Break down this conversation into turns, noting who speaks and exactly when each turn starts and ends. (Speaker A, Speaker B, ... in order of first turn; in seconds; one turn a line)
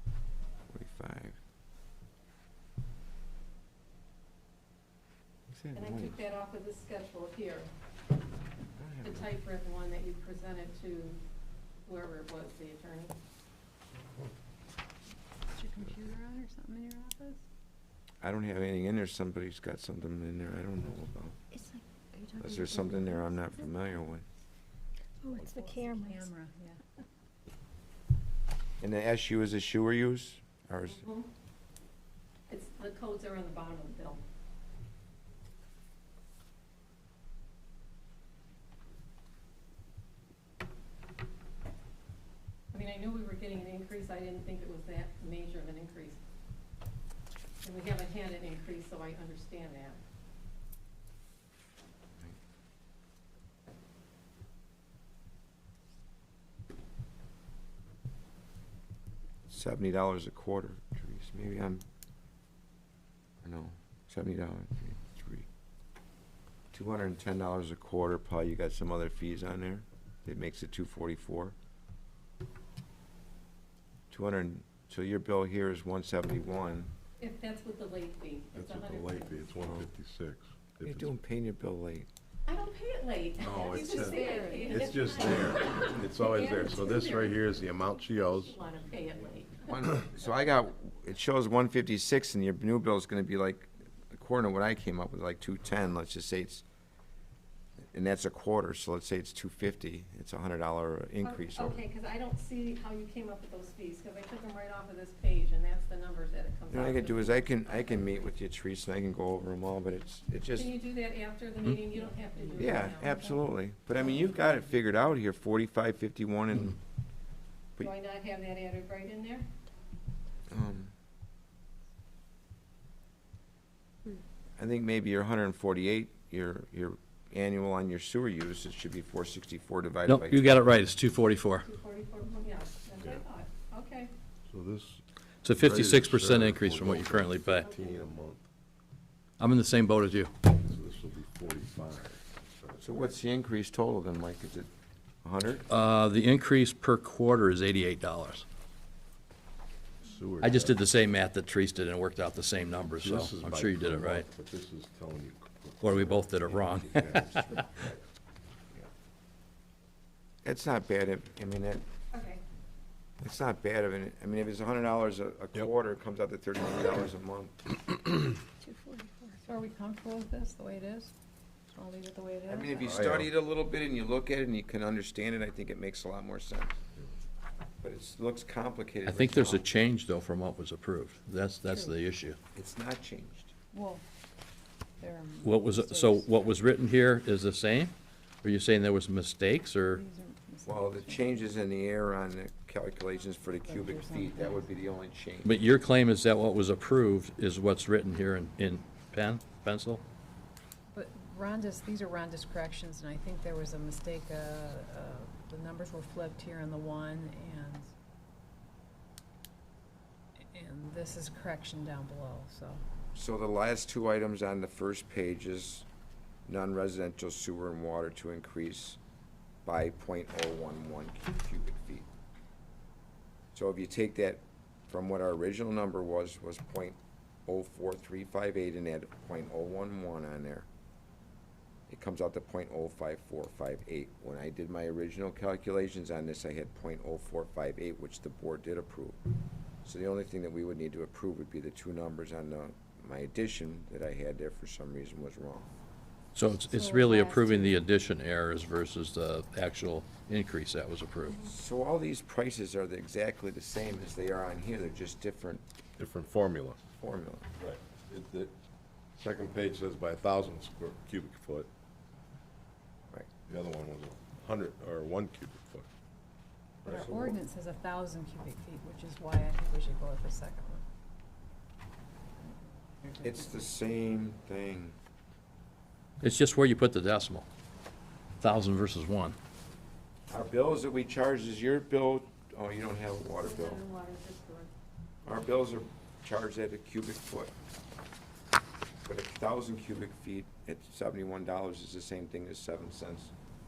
Speaker A: 0.7-1.4
Speaker A: 5.5-6.2
Speaker B: 5.7-7.7
Speaker A: 8.8-9.3
Speaker B: 9.0-11.2
Speaker B: 11.8-13.1
Speaker C: 15.5-17.4
Speaker A: 18.2-21.4
Speaker D: 21.5-23.2
Speaker A: 22.4-24.2
Speaker D: 25.2-26.2
Speaker C: 25.3-26.8
Speaker A: 28.8-31.0
Speaker B: 30.9-31.3
Speaker B: 32.5-34.2
Speaker B: 42.7-46.2
Speaker B: 47.6-50.0
Speaker A: 59.5-61.8
Speaker A: 63.4-65.5
Speaker A: 66.7-71.5
Speaker A: 74.1-76.9
Speaker B: 77.2-79.5
Speaker E: 78.5-81.2
Speaker A: 79.6-79.9
Speaker A: 80.8-82.1
Speaker B: 82.5-89.8
Speaker E: 83.4-88.6
Speaker C: 83.7-84.9
Speaker A: 89.6-96.6
Speaker A: 97.9-101.8
Speaker B: 101.2-108.1
Speaker A: 106.7-110.7
Speaker B: 110.5-113.2
Speaker C: 112.4-113.4
Speaker A: 112.6-116.8
Speaker B: 117.8-119.4
Speaker A: 120.5-120.9
Speaker A: 124.6-130.7
Speaker F: 130.1-131.7
Speaker B: 131.6-134.1
Speaker E: 134.5-138.4
Speaker F: 135.4-137.7
Speaker B: 137.6-138.0
Speaker F: 139.4-140.3
Speaker E: 140.5-142.9
Speaker A: 142.8-144.7
Speaker A: 145.2-145.7
Speaker F: 145.7-148.4
Speaker E: 150.0-150.8
Speaker F: 150.4-154.2
Speaker E: 153.0-157.9
Speaker F: 155.8-157.6
Speaker A: 160.4-161.8
Speaker B: 162.1-162.4
Speaker A: 163.2-167.7
Speaker C: 168.6-171.1
Speaker C: 171.7-172.9
Speaker A: 172.5-176.8
Speaker E: 172.8-173.3
Speaker A: 177.8-179.7
Speaker F: 179.0-182.4
Speaker C: 181.7-181.9
Speaker A: 182.5-183.5
Speaker C: 183.7-184.0
Speaker C: 185.0-186.4
Speaker F: 185.4-190.0
Speaker C: 189.9-191.5
Speaker A: 190.7-195.6
Speaker C: 193.6-194.7
Speaker F: 195.4-200.0
Speaker C: 200.9-207.9
Speaker C: 210.5-212.8
Speaker A: 213.1-215.9
Speaker A: 216.4-219.0
Speaker A: 219.6-222.1
Speaker A: 223.5-230.7
Speaker A: 231.9-239.2
Speaker A: 239.8-245.7
Speaker F: 246.3-251.4
Speaker C: 246.7-247.8
Speaker A: 251.4-255.6
Speaker E: 256.0-256.8
Speaker A: 257.0-257.5
Speaker E: 257.6-258.5
Speaker E: 259.2-261.7
Speaker E: 263.5-265.9
Speaker C: 266.8-270.8
Speaker A: 266.9-267.4
Speaker C: 273.0-273.5
Speaker A: 273.2-274.9
Speaker F: 276.2-277.4
Speaker F: 278.4-279.4
Speaker A: 280.3-283.8
Speaker B: 283.4-284.7
Speaker A: 285.2-287.5
Speaker A: 289.0-293.3